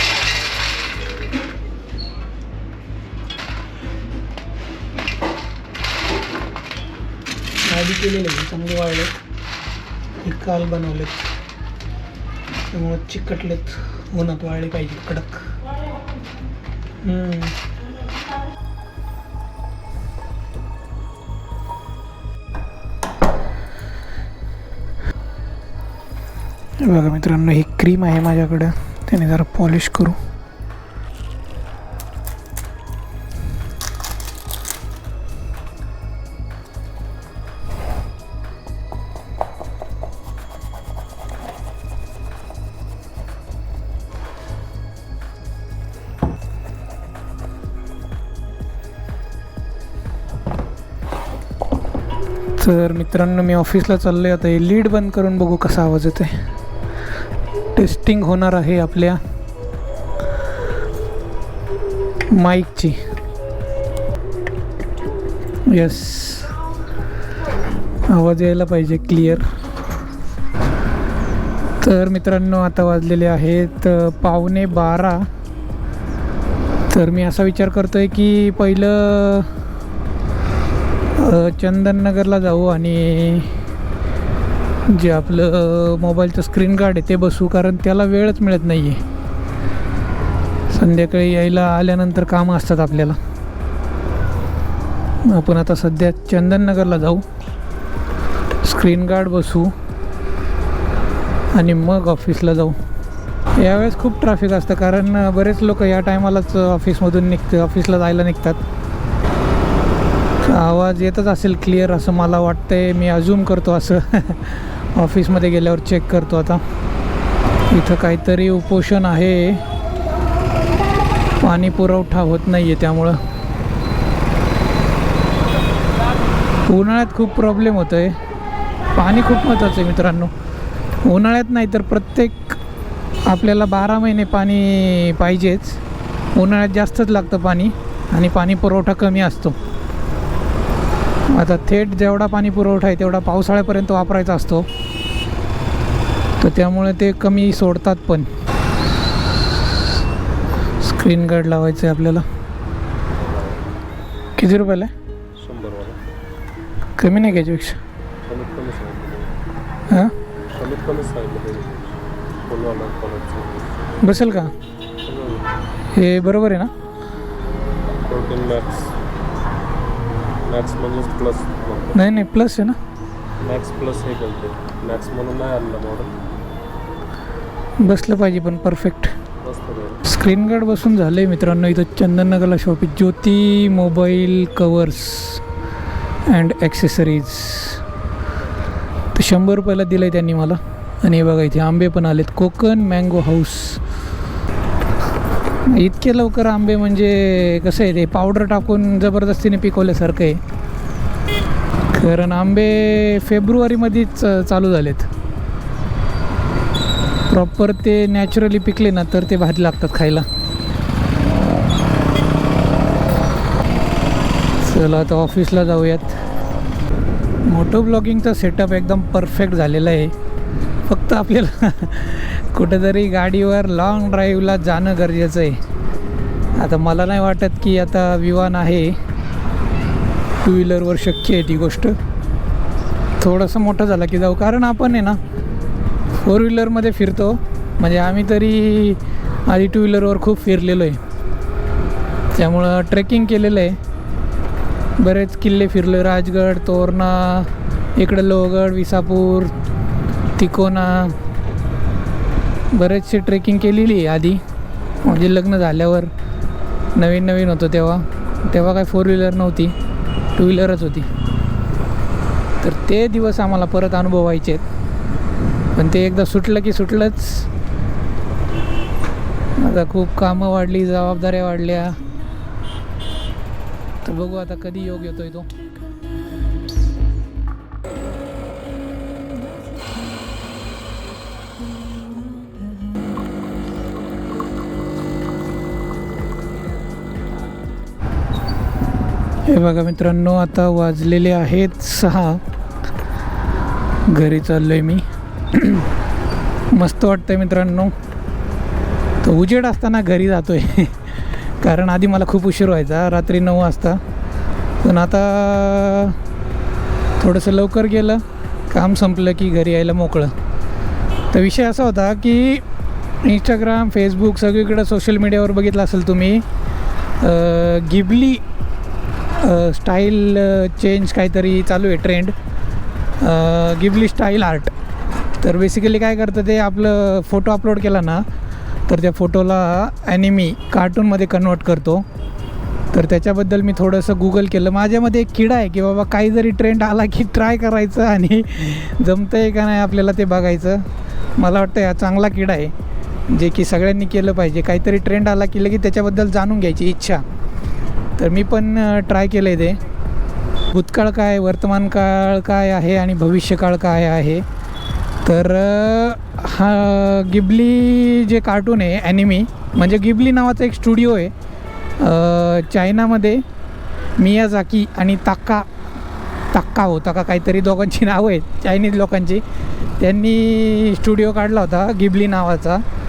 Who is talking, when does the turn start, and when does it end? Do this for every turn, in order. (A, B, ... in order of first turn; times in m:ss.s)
0:07.6-0:09.1 A
0:10.2-0:11.3 A
0:12.7-0:15.5 A
0:17.0-0:17.5 A
0:26.8-0:30.2 A
0:52.6-0:56.3 A
0:57.7-0:59.2 A
1:02.3-1:03.0 A
1:05.7-1:06.5 A
1:08.1-1:09.4 A
1:11.8-1:15.2 A
1:16.9-1:19.5 A
1:21.2-1:23.5 A
1:24.9-1:29.0 A
1:30.7-1:33.2 A
1:35.2-1:37.2 A
1:38.6-1:39.7 A
1:41.5-1:42.8 A
1:43.6-1:48.6 A
1:50.4-1:56.6 A
1:57.7-1:59.6 A
2:01.4-2:03.2 A
2:06.6-2:08.1 A
2:08.9-2:10.3 A
2:11.0-2:12.6 A
2:13.2-2:15.8 A
2:16.3-2:19.6 A
2:21.3-2:24.7 A
2:26.4-2:28.3 A
2:30.8-2:32.2 A
2:33.1-2:33.6 B
2:34.4-2:34.9 A
2:35.4-2:36.0 B
2:37.0-2:37.8 A
2:38.3-2:39.4 B
2:40.5-2:43.7 B
2:44.0-2:44.5 A
2:45.0-2:45.4 B
2:45.9-2:46.7 A
2:48.1-2:48.9 B
2:50.5-2:52.0 B
2:51.9-2:52.8 A
2:53.4-2:56.2 B
2:57.8-2:59.1 A
2:59.4-3:00.0 B
3:00.1-3:05.4 A
3:06.3-3:07.8 A
3:09.1-3:13.8 A
3:15.6-3:20.4 A
3:21.9-3:25.1 A
3:27.3-3:30.2 A
3:34.6-3:36.2 A
3:37.4-3:40.1 A
3:40.9-3:45.6 A
3:46.6-3:49.0 A
3:50.4-3:51.9 A
3:53.2-3:55.2 A
3:56.2-4:01.0 A
4:02.3-4:03.8 A
4:05.0-4:09.5 A
4:10.4-4:11.1 A
4:12.7-4:14.4 A
4:15.0-4:16.1 A
4:16.9-4:19.7 A
4:20.4-4:21.1 A
4:22.6-4:24.6 A
4:25.7-4:27.5 A
4:29.6-4:32.0 A
4:34.0-4:35.5 A
4:49.5-4:52.4 A
4:54.1-4:55.9 A
4:56.7-4:57.9 A
4:59.2-5:04.0 A
5:04.8-5:06.2 A
5:07.2-5:10.3 A
5:11.3-5:12.6 A
5:13.2-5:16.4 A
5:17.2-5:18.4 A
5:19.4-5:22.3 A
5:23.2-5:24.7 A
5:25.4-5:28.2 A
5:28.9-5:32.0 A
5:32.9-5:40.8 A
5:41.4-5:42.7 A
5:43.3-5:47.2 A
5:48.2-5:49.8 A
5:50.7-5:54.4 A
5:55.2-6:01.3 A
6:02.0-6:03.4 A
6:04.2-6:05.7 A
6:06.5-6:09.4 A
6:10.0-6:12.8 A